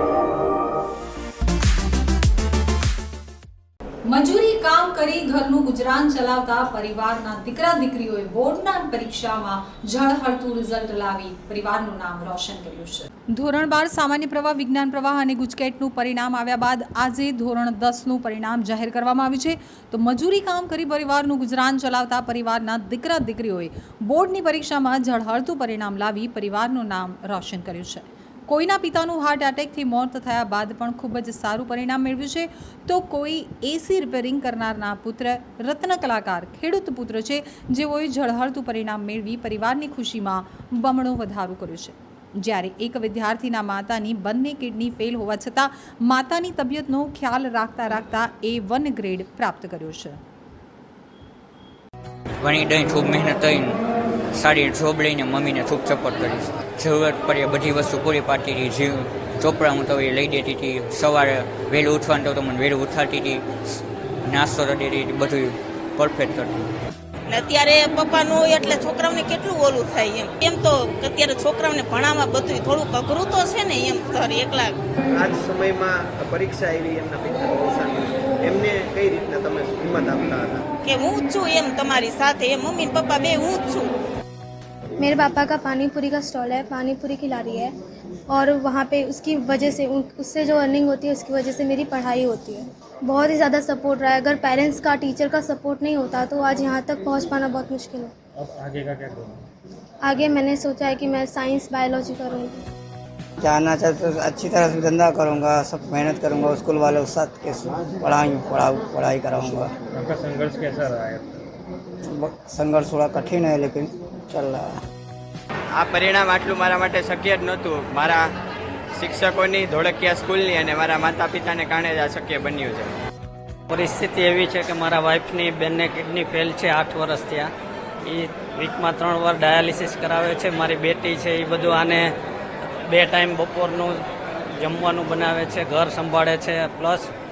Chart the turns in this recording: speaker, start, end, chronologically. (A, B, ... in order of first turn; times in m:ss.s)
0:04.1-0:50.2 A
0:52.4-0:53.8 B
0:54.3-1:03.4 B
1:04.2-1:06.7 B
1:07.3-1:14.8 C
1:15.1-1:20.6 D
1:20.8-1:23.9 C
1:25.0-1:27.7 E
1:28.3-1:38.1 E
1:38.4-1:39.4 F
1:40.0-1:42.5 E
1:43.4-1:49.7 G
1:49.9-1:51.4 F
1:52.0-1:54.7 G
1:55.8-1:58.2 H
1:59.0-2:02.9 H
2:03.7-2:07.5 I
2:08.0-2:12.1 I
2:12.9-2:14.0 I
2:14.6-2:17.1 I